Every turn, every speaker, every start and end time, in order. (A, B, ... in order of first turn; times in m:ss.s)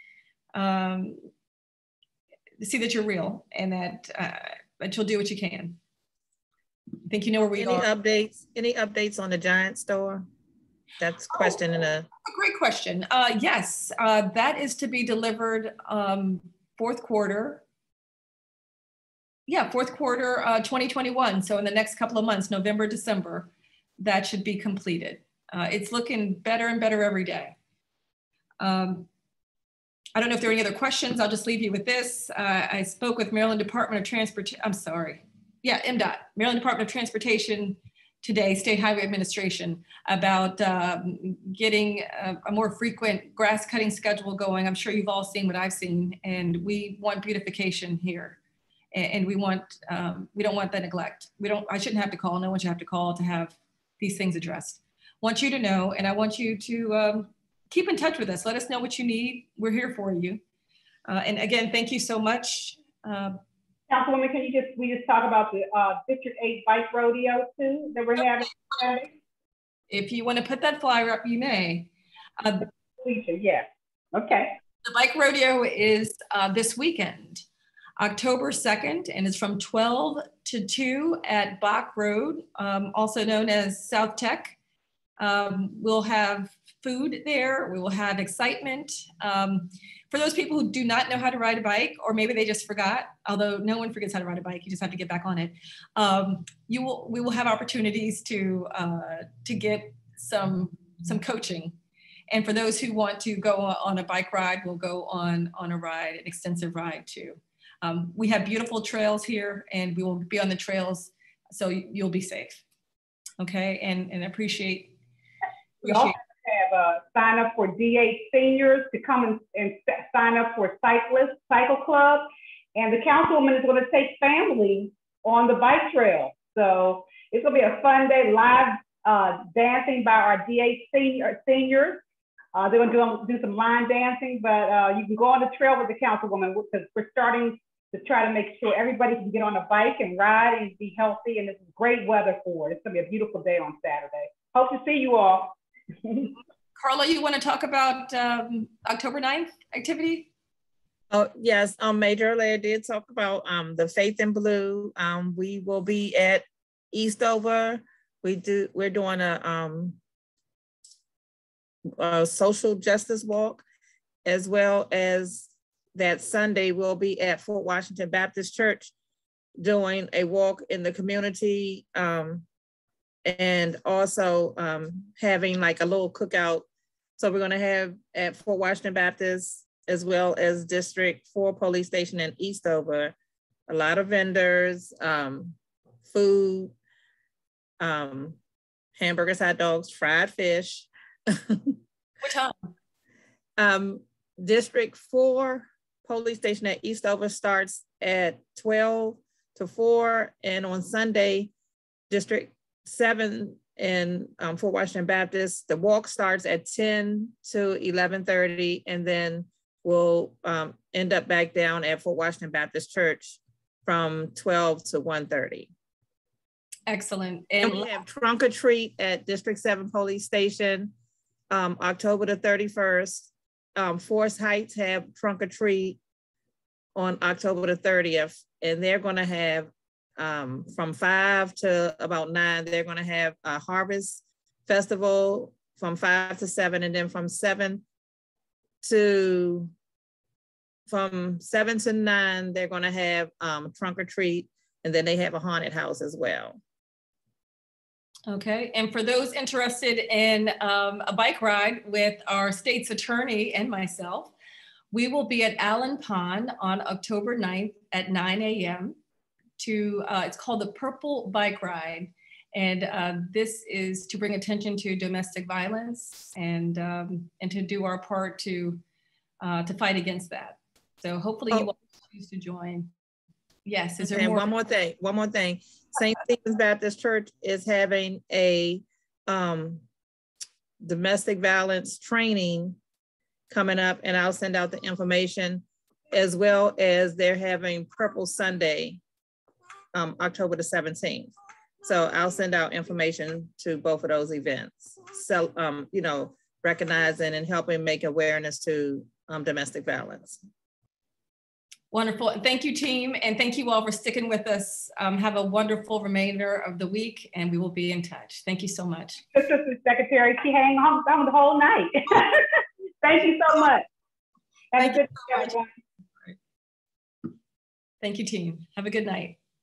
0:00.5-0:01.2 A
0:02.6-0:05.8 A
0:07.1-0:07.9 A
0:07.6-0:10.3 B
0:11.0-0:12.1 B
0:11.3-0:11.6 A
0:12.2-0:17.6 A
0:19.5-0:27.6 A
0:28.6-0:29.1 A
0:30.2-0:48.4 A
0:48.9-1:00.4 A
1:01.1-1:03.4 A
1:03.9-1:09.1 C
1:09.9-1:11.9 A
1:12.4-1:12.7 A
1:13.0-1:14.6 C
1:14.8-1:17.4 A
1:18.0-1:24.6 A
1:25.2-1:41.8 A
1:42.3-1:52.6 A
1:53.4-1:55.0 A
1:55.8-1:56.2 A
1:55.8-2:12.0 C
2:12.5-2:26.3 C
2:26.8-2:30.3 A
2:31.1-2:40.0 B
2:42.0-2:43.6 B
2:44.2-2:48.9 B
2:49.6-2:52.5 B
2:53.3-2:56.7 B
2:57.2-3:03.2 B
3:03.7-3:06.8 B
3:07.8-3:08.4 B
3:09.0-3:11.7 B
3:12.2-3:12.6 A
3:13.6-3:21.5 B
3:22.1-3:35.7 B
3:36.9-3:38.0 A
3:37.6-3:40.9 B
3:41.5-3:46.0 B
3:47.0-3:57.8 B
3:58.8-3:59.7 B
4:00.9-4:06.6 B
4:08.3-4:14.3 A
4:14.9-4:19.0 A
4:19.6-4:28.8 A
4:29.4-4:32.9 A
4:33.6-4:34.5 A
4:34.0-4:39.8 B
4:40.8-4:42.8 B
4:43.5-4:49.0 B
4:49.9-5:00.4 B
5:01.9-5:09.2 A
5:09.3-5:13.9 C
5:14.7-5:15.7 C
5:14.8-5:15.6 A
5:18.0-5:19.4 A